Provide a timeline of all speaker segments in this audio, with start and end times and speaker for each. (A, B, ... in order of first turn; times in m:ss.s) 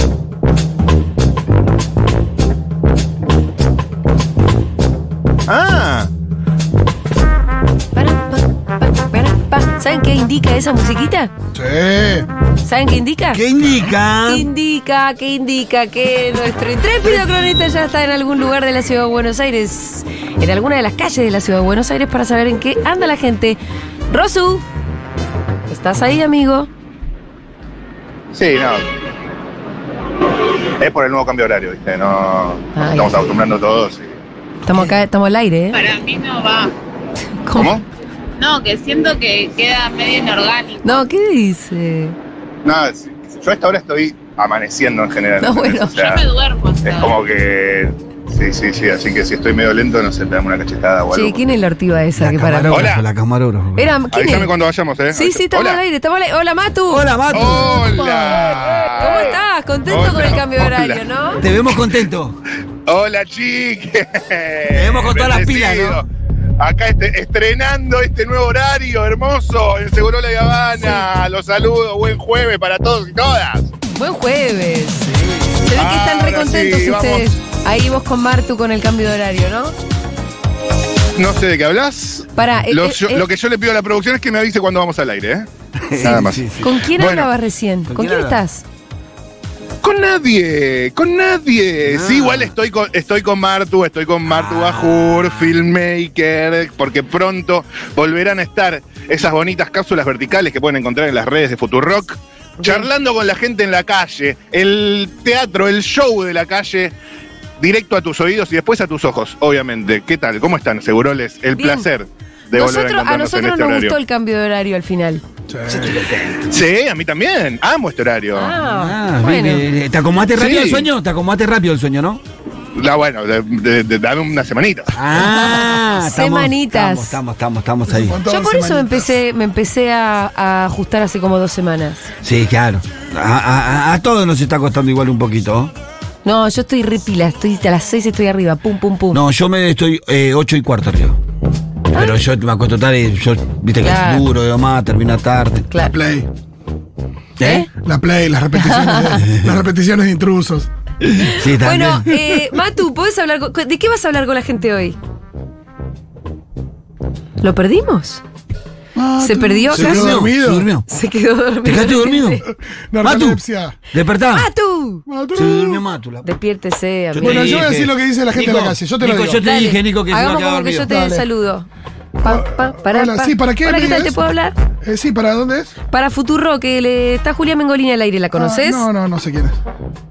0:05.5-0:06.1 A
0:07.9-0:11.3 B
0:11.6-0:12.3 C
0:12.6-0:13.4 B
0:13.3-0:14.5 D
0:14.2-0:23.6 B
0:24.1-0:24.6 B
0:25.7-0:26.7 B
0:28.3-0:28.8 A
0:30.8-0:34.1 A
0:32.7-0:33.1 B
0:34.6-0:35.8 B
0:35.7-0:36.7 E
0:37.4-0:37.8 B
0:37.6-0:37.8 A
0:38.4-0:41.0 E
0:40.8-0:42.2 B
0:42.6-0:46.3 A
0:45.4-0:46.1 B
0:46.0-0:47.1 E
0:46.8-0:51.4 A
0:51.1-0:52.9 B
0:52.2-0:53.9 D
0:52.7-0:53.0 A
0:53.8-0:54.5 B
0:54.1-0:55.8 A
0:55.1-0:57.0 B
0:56.9-0:58.4 D
0:57.3-1:01.0 A
0:57.6-0:58.1 B
0:58.9-1:01.4 B
1:01.4-1:02.4 D
1:02.8-1:06.0 A
1:04.7-1:06.0 D
1:06.6-1:13.7 A
1:10.7-1:11.1 B
1:13.9-1:19.7 B
1:15.7-1:17.3 A
1:21.2-1:25.5 A
1:22.4-1:23.2 B
1:25.8-1:26.8 D
1:26.0-1:27.3 A
1:26.0-1:28.6 B
1:27.9-1:28.4 D
1:29.8-1:46.9 A
1:31.8-1:32.5 D
1:34.2-1:35.6 D
1:42.6-1:42.9 B
1:47.6-1:54.0 A
1:51.5-1:51.9 B
1:52.5-1:55.2 B
1:55.5-1:56.1 C
1:56.4-1:58.6 A
1:58.3-1:59.6 B
1:58.6-2:02.2 D
2:00.3-2:00.9 A
2:02.8-2:04.9 A
2:04.9-2:08.2 D
2:05.4-2:07.2 B
2:07.9-2:09.2 C
2:08.2-2:12.1 B
2:12.2-2:15.7 D
2:16.2-2:19.2 B
2:19.1-2:21.2 D
2:21.9-2:22.2 B
2:21.9-2:25.7 D
2:23.8-2:24.2 B
2:25.7-2:26.0 B
2:25.8-2:26.3 C
2:27.4-2:27.6 D
2:27.4-2:27.7 B
2:27.7-2:30.7 C
2:28.6-2:29.2 B
2:29.2-2:29.6 D
2:31.0-2:32.1 D
2:31.2-2:35.0 B
2:37.4-2:38.2 B
2:39.0-2:40.7 C
2:39.2-2:40.2 B
2:39.7-2:40.8 D
2:40.9-2:42.4 B
2:41.6-2:42.4 D
2:42.4-2:43.8 C
2:43.0-2:44.5 D
2:44.3-2:45.0 B
2:45.1-2:45.8 C
2:45.3-2:46.3 D
2:46.2-2:47.6 B
2:47.1-2:50.9 D
2:47.2-2:49.4 C
2:49.4-2:51.7 B
2:50.8-2:51.2 C
2:52.2-2:54.6 B
2:52.2-2:54.2 C
2:54.8-2:55.7 C
2:55.9-2:58.9 B
2:58.3-2:59.6 C